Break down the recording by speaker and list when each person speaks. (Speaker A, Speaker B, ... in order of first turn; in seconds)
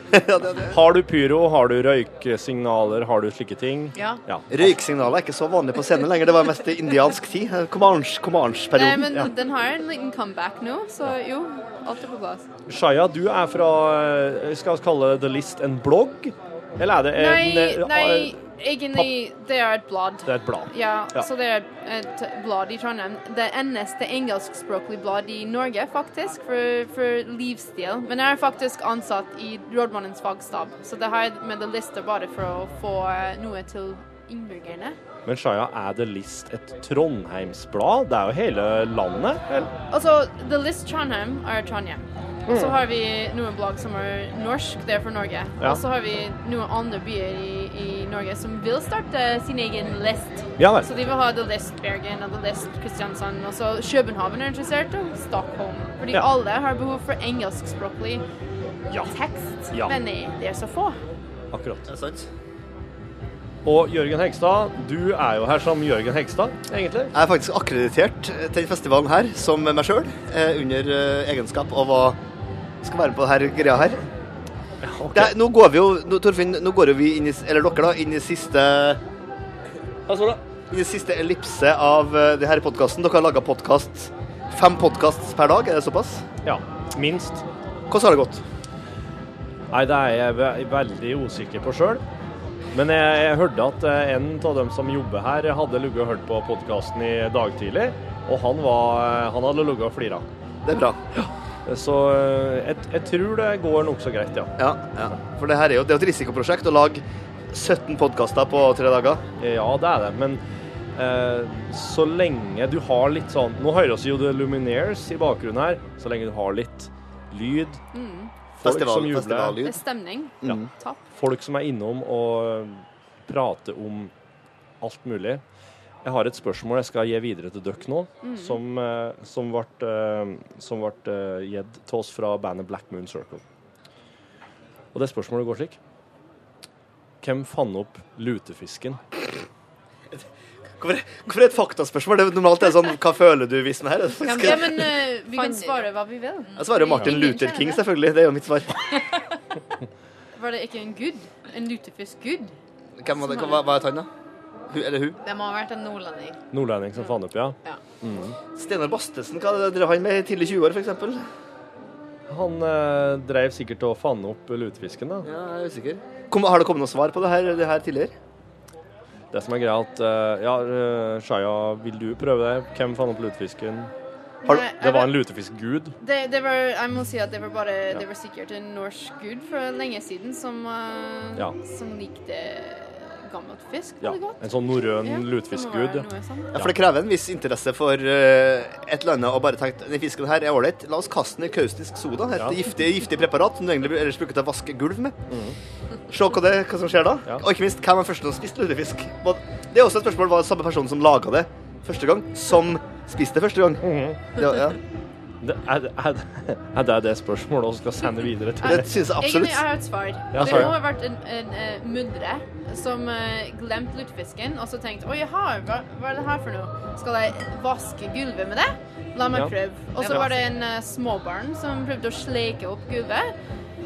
Speaker A: 0.1-0.8, 4.5-9.2, 61.9-62.3, 67.1-72.2, 72.8-74.0, 75.1-79.0, 80.7-86.2, 87.9-88.4, 100.7-101.0, 104.6-109.2, 118.6-119.8, 140.8-145.0, 146.6-148.9, 153.0-154.1, 154.7-155.2, 158.6-161.2, 165.2-168.1, 186.5-195.2, 196.1-203.8, 204.4-204.8, 208.6-209.6, 210.3-210.7
Speaker B: 0.7-4.7, 12.7-18.4, 20.3-21.3, 35.3-39.7, 42.5-42.8, 50.6-50.9, 61.5-61.9, 63.6-67.1, 74.8-75.3, 80.1-80.4, 86.5-87.4, 89.7-92.0, 92.7-100.2, 101.1-104.6, 109.4-110.4, 111.0-117.8, 118.6-119.6, 120.4-124.1, 124.8-125.4, 126.0-133.4, 134.9-135.8, 137.2-139.0, 156.5-158.4, 162.3-165.3, 169.3-173.9, 174.8-176.0, 184.0-186.8, 195.3-195.6, 203.8-204.4, 205.4-208.9, 210.3-210.8
Speaker C: 4.0-4.2, 144.3-145.9, 155.2-156.4, 220.0-220.4
Speaker D: 8.8-12.5, 17.2-35.0, 39.9-58.2, 59.0-61.0, 117.9-118.3, 119.6-121.0, 128.2-128.6, 144.2-147.8, 150.4-152.5, 153.1-153.7, 174.4-175.2, 176.0-184.4, 185.0-186.6, 208.7-223.3